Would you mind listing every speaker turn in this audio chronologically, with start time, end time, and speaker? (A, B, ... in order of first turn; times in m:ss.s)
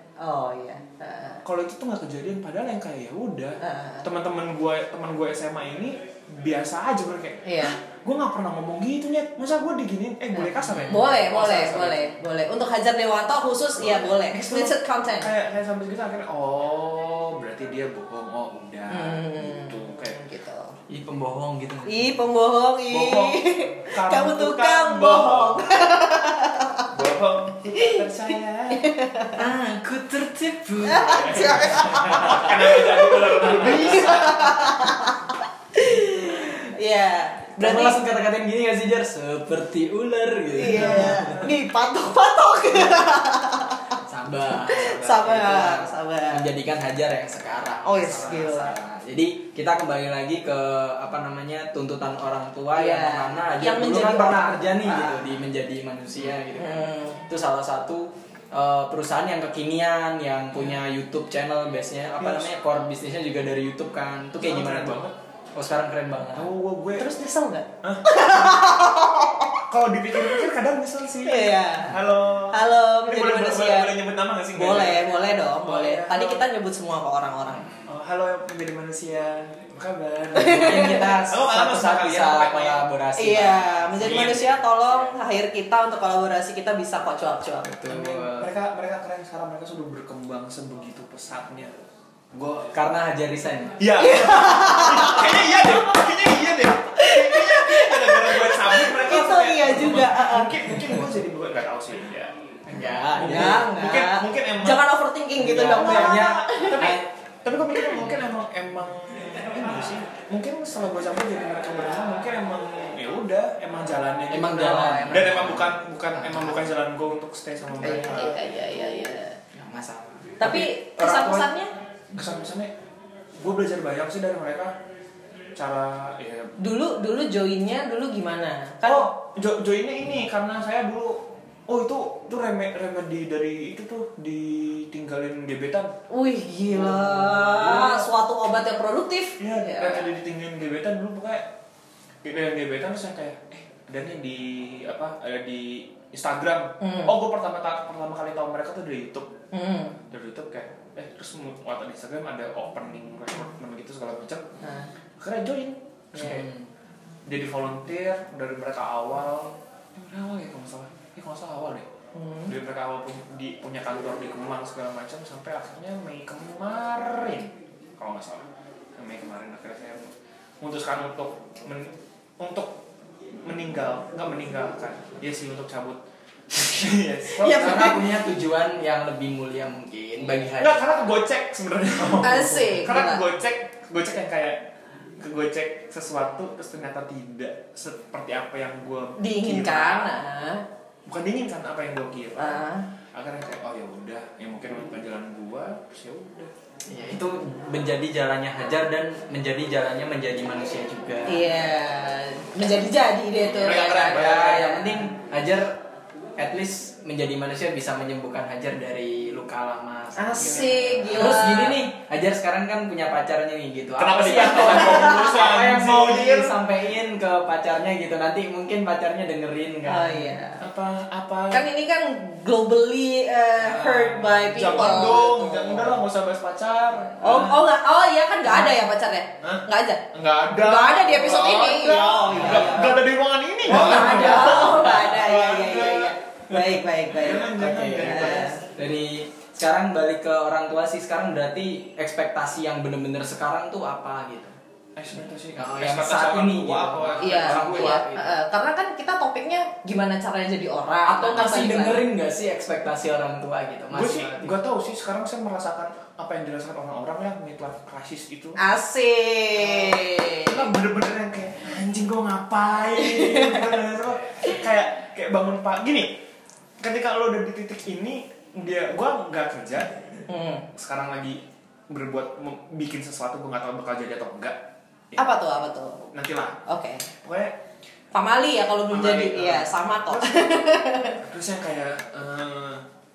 0:00.2-0:01.4 A
0:01.4-0:12.1 B
0:03.6-0:04.1 A
0:07.4-0:07.8 A
0:10.3-0:15.3 A
0:10.7-0:11.0 C
0:13.8-0:20.2 B
0:18.9-0:20.7 A
0:20.9-0:22.1 C
0:21.9-0:26.9 A
0:22.9-0:25.9 B
0:26.9-0:28.9 B
0:27.7-0:28.0 A
0:28.7-0:29.4 A
0:29.4-0:32.6 C
0:30.9-0:38.0 A
0:31.0-0:34.9 B
0:33.6-0:33.8 C
0:37.6-0:41.4 C
0:40.6-0:44.0 A
0:40.7-0:41.5 B
0:44.0-1:05.0 C
0:44.7-0:46.5 A
0:47.8-0:48.8 A
0:52.8-0:55.2 A
0:56.6-0:57.3 A
1:02.2-1:02.5 B
1:04.4-1:05.2 B
1:05.6-1:06.5 C
1:06.3-1:07.1 B
1:07.0-1:09.6 A
1:07.8-1:08.8 B
1:09.7-1:16.4 B
1:11.2-1:12.0 A
1:12.5-1:13.9 A
1:14.5-1:17.7 A
1:17.5-1:17.9 C
1:17.9-1:22.8 B
1:20.4-1:21.2 A
1:20.4-1:24.6 C
1:23.2-1:27.8 A
1:24.0-1:24.5 B
1:27.7-1:28.5 C
1:27.9-1:31.7 B
1:32.4-1:33.8 C
1:33.8-1:42.3 B
1:34.0-1:35.7 A
1:37.0-1:40.7 A
1:42.7-1:43.7 C
1:43.2-1:44.8 B
1:43.2-1:46.9 A
1:45.4-1:47.1 C
1:45.7-1:58.4 B
1:54.3-1:56.7 C
1:57.8-1:59.4 A
1:59.5-2:00.4 C
2:00.4-2:01.7 A
2:00.4-2:01.5 B
2:02.1-2:02.7 B
2:03.4-2:04.8 B
2:05.6-2:06.5 B
2:06.6-2:09.1 A
2:08.8-2:15.9 B
2:16.1-2:20.1 A
2:16.7-2:18.1 B
2:19.4-2:21.5 B
2:22.2-2:29.3 B
2:26.8-2:27.1 A
2:29.5-2:30.0 A
2:30.1-2:34.4 B
2:34.6-2:34.9 A
2:35.2-2:36.5 B
2:36.2-2:36.7 C
2:37.3-2:41.9 B
2:42.1-2:42.5 A
2:42.5-2:52.8 B
2:53.4-2:58.1 B
2:57.4-3:01.0 C
3:00.6-3:04.6 B
3:02.2-3:03.2 A
3:05.2-3:10.2 B
3:09.2-3:10.6 A
3:11.1-3:12.6 B
3:12.4-3:12.9 A
3:13.1-3:16.5 B
3:16.9-3:21.4 C
3:21.3-3:25.1 A
3:23.4-3:25.8 C
3:23.6-3:24.7 B
3:26.4-3:40.4 C
3:30.2-3:31.8 A
3:30.4-3:30.8 B
3:34.0-3:36.6 B
3:39.9-3:40.6 A
3:40.6-3:41.7 B
3:41.5-3:45.9 A
3:43.6-3:47.7 B
3:47.2-3:50.0 A
3:48.4-3:48.8 B
3:49.4-3:56.2 B
3:50.6-3:53.0 A
3:52.3-3:52.8 C
3:53.7-3:58.6 A
3:53.7-3:55.2 C
3:57.1-3:58.6 B
3:57.6-4:04.6 C
4:05.0-4:08.0 B
4:05.6-4:08.4 C
4:07.2-4:12.0 A
4:11.0-4:14.6 C
4:13.9-4:18.6 B
4:18.6-4:20.7 A
4:19.6-4:26.2 B
4:22.9-4:23.8 A
4:26.8-4:30.1 B
4:30.3-4:30.7 A
4:30.7-4:34.6 B
4:35.2-4:36.0 A
4:36.1-4:37.6 B
4:36.7-4:37.1 A
4:38.1-4:41.2 A
4:38.9-4:42.8 B